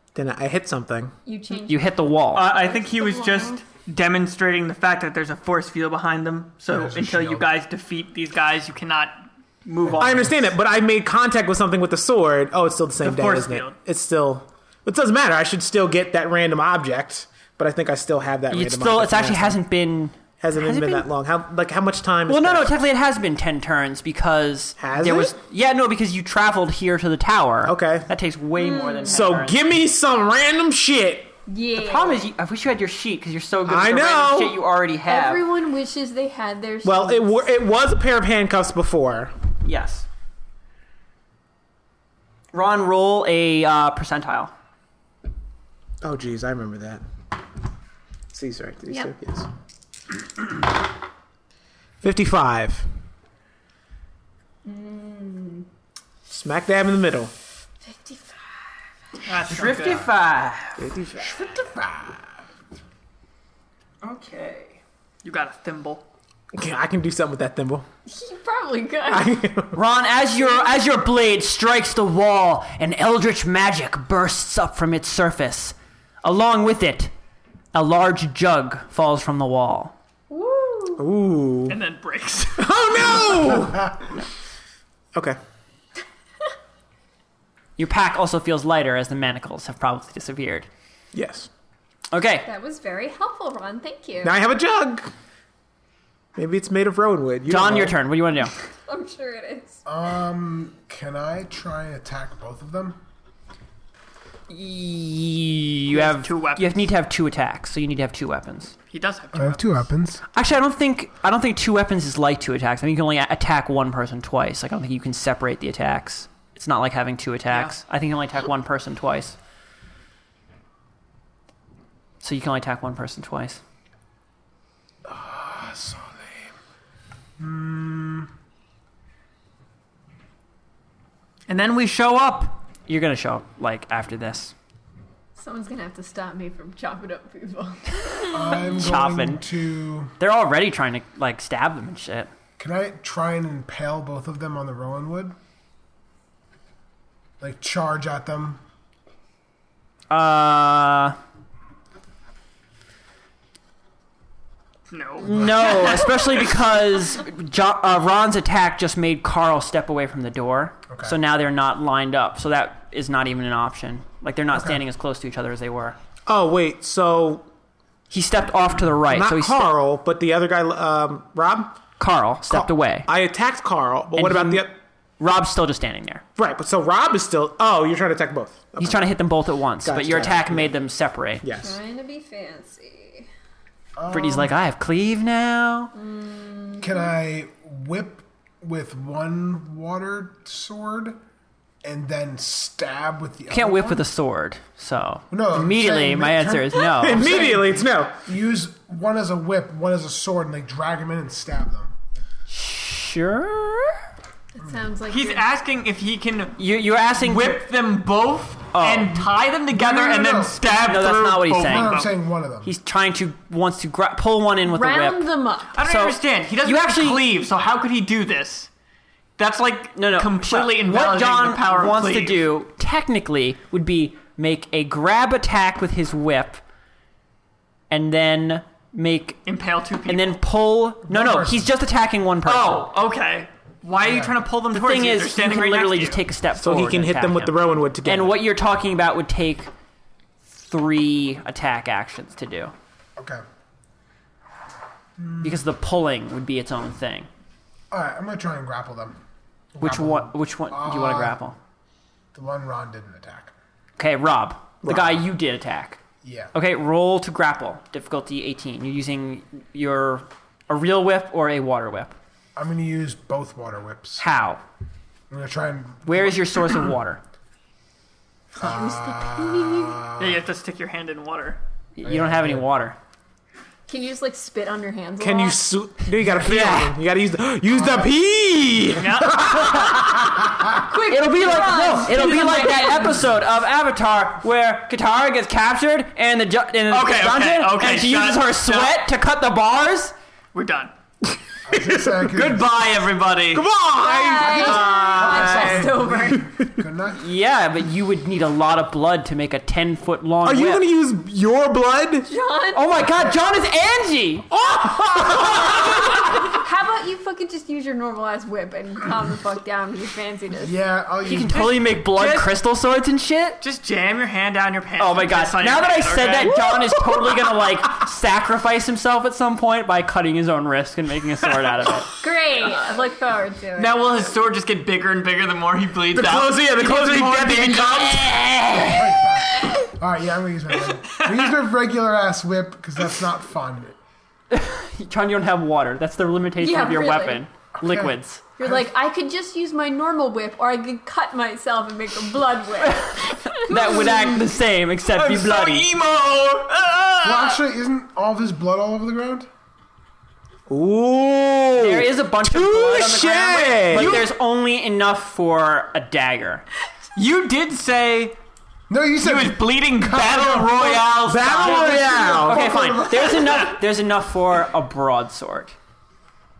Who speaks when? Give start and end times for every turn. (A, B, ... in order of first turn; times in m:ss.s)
0:00.1-0:01.1 A
0:01.2-0:02.0 B
0:01.6-0:02.5 C
0:02.3-0:10.5 D
0:02.6-0:03.6 B
0:06.7-0:07.5 E
0:09.9-0:19.6 A
0:13.0-0:13.7 D
0:18.5-0:21.1 C
0:20.4-0:22.7 A
0:22.3-0:29.6 C
0:24.8-0:25.3 A
0:27.6-0:28.1 A
0:28.6-0:29.2 B
0:29.0-0:31.3 A
0:31.5-0:32.2 B
0:31.7-0:35.4 C
0:33.6-0:34.6 A
0:35.1-0:37.4 B
0:36.8-0:39.3 A
0:39.6-0:40.0 C
0:42.5-0:44.5 C
0:46.0-0:47.0 A
0:48.3-0:49.5 A
0:52.0-0:52.9 A
0:54.6-0:55.6 B
0:56.3-0:57.3 A
0:57.8-0:58.6 B
0:59.2-1:00.1 D
0:59.5-1:00.8 C
0:59.6-1:00.1 E
1:00.8-1:01.6 A
1:01.2-1:02.4 E
1:05.2-1:06.1 D
1:06.5-1:07.8 A
1:08.0-1:09.4 B
1:09.1-1:09.8 A
1:09.7-1:17.1 C
1:17.7-1:19.9 C
1:20.3-1:21.0 B
1:21.0-1:21.8 A
1:21.7-1:22.7 D
1:22.6-1:24.0 A
1:27.8-1:30.7 C
1:31.1-1:31.5 A
1:32.1-1:32.5 C
1:32.4-1:34.4 B
1:34.2-1:35.1 A
1:36.4-1:38.0 A
1:37.5-1:38.5 C
1:38.8-1:39.8 B
1:39.8-1:43.0 E
1:44.5-1:48.7 C
1:45.9-1:46.9 D
1:48.9-1:49.8 D
1:49.3-1:50.2 E
1:50.3-1:59.4 C
1:57.5-1:57.8 D
2:02.2-2:03.6 C
2:05.0-2:06.5 E
2:07.4-2:08.3 E
2:11.5-2:12.6 D
2:12.9-2:14.5 C
2:15.4-2:18.6 B
2:18.3-2:20.1 E
2:18.6-2:19.4 C
2:20.2-2:22.3 C
2:22.6-2:25.4 E
2:27.4-2:28.6 E
2:30.1-2:31.2 C
2:34.9-2:36.4 D
2:35.2-2:46.0 C
2:35.2-2:36.0 E
2:40.9-2:41.2 E
2:44.5-2:44.8 E
2:46.3-2:47.4 A
2:48.1-2:49.7 C
2:49.1-2:51.8 A
2:52.0-2:53.1 C
2:52.4-2:54.8 A
2:54.2-2:54.7 C
2:55.2-2:56.2 C
2:56.4-2:59.2 A
2:58.8-3:01.4 C
2:59.8-3:00.8 A
3:01.4-3:01.8 A
3:01.5-3:03.3 B
3:04.0-3:04.5 E
3:04.1-3:05.9 C
3:05.9-3:07.1 B
3:06.8-3:11.2 E
3:11.8-3:14.0 E
3:13.5-3:17.6 C
3:15.3-3:21.9 E
3:17.0-3:18.2 A
3:22.5-3:24.0 C
3:24.6-3:25.5 B
3:25.1-3:26.6 D
3:26.6-3:27.6 C
3:27.2-3:32.1 D
3:28.7-3:29.2 C
3:29.7-3:30.6 E
3:30.7-3:32.0 C
3:31.6-3:32.7 E
3:32.6-3:37.3 C
3:34.6-3:35.8 B
3:35.7-3:38.7 D
3:39.4-3:42.4 D
3:39.9-3:46.6 C
3:47.9-3:49.4 C
3:49.4-3:50.4 D
3:50.1-3:52.9 C
3:51.1-3:51.7 E
3:52.4-3:56.2 D
3:54.0-3:54.4 E
3:54.7-3:59.7 C
3:56.6-3:58.4 A
4:00.5-4:02.7 C
4:03.2-4:03.4 E
4:05.2-4:05.6 E
4:05.4-4:07.3 C
4:07.9-4:09.2 E
4:09.7-4:11.4 E
4:09.8-4:11.6 C
4:12.3-4:13.5 E
4:14.0-4:16.0 C
4:14.8-4:15.2 A
4:16.2-4:16.5 E
4:16.5-4:22.1 C
4:22.6-4:24.2 E
4:24.2-4:24.6 C
4:25.3-4:26.8 E
4:26.0-4:27.2 C
4:28.6-4:30.0 B
4:28.6-4:30.4 E
4:30.2-4:31.6 D
4:32.0-4:33.0 C
4:32.0-4:32.7 E
4:33.9-4:35.6 B
4:35.2-4:40.2 A
4:36.4-4:36.8 C
4:37.7-4:38.1 E
4:39.0-4:39.9 D
4:40.8-4:43.3 B
4:41.0-4:50.1 C
4:46.9-4:49.0 D
4:50.5-4:50.9 D
4:51.6-4:52.7 E
4:52.1-4:53.6 D
4:53.5-4:56.7 A
4:54.0-4:56.5 B
4:54.4-4:57.2 E
4:55.0-4:55.6 D
4:57.2-5:00.8 C
5:00.4-5:02.3 A
5:02.3-5:03.1 B
5:02.7-5:04.5 C
5:03.1-5:03.4 E
5:04.5-5:06.3 A
5:05.4-5:10.8 B
5:10.6-5:11.9 E
5:11.2-5:13.6 C
5:12.1-5:12.5 D
5:13.6-5:16.6 D
5:15.0-5:22.1 C
5:16.7-5:17.5 A
5:22.2-5:24.1 B
5:23.8-5:28.4 D
5:26.1-5:28.4 A
5:28.3-5:29.1 C
5:28.9-5:34.0 E
5:31.0-5:31.5 D
5:34.5-5:38.4 C
5:36.6-5:37.4 B
5:37.8-5:38.9 E
5:38.6-5:44.0 B
5:42.8-5:45.9 C
5:45.1-5:47.6 D
5:47.2-5:49.5 E
5:50.7-5:54.2 A
5:51.8-5:56.6 C
5:53.9-5:54.3 D
5:57.1-5:58.4 D
5:58.9-6:01.2 E
5:59.2-6:03.6 D
6:01.2-6:02.9 A
6:02.3-6:05.7 C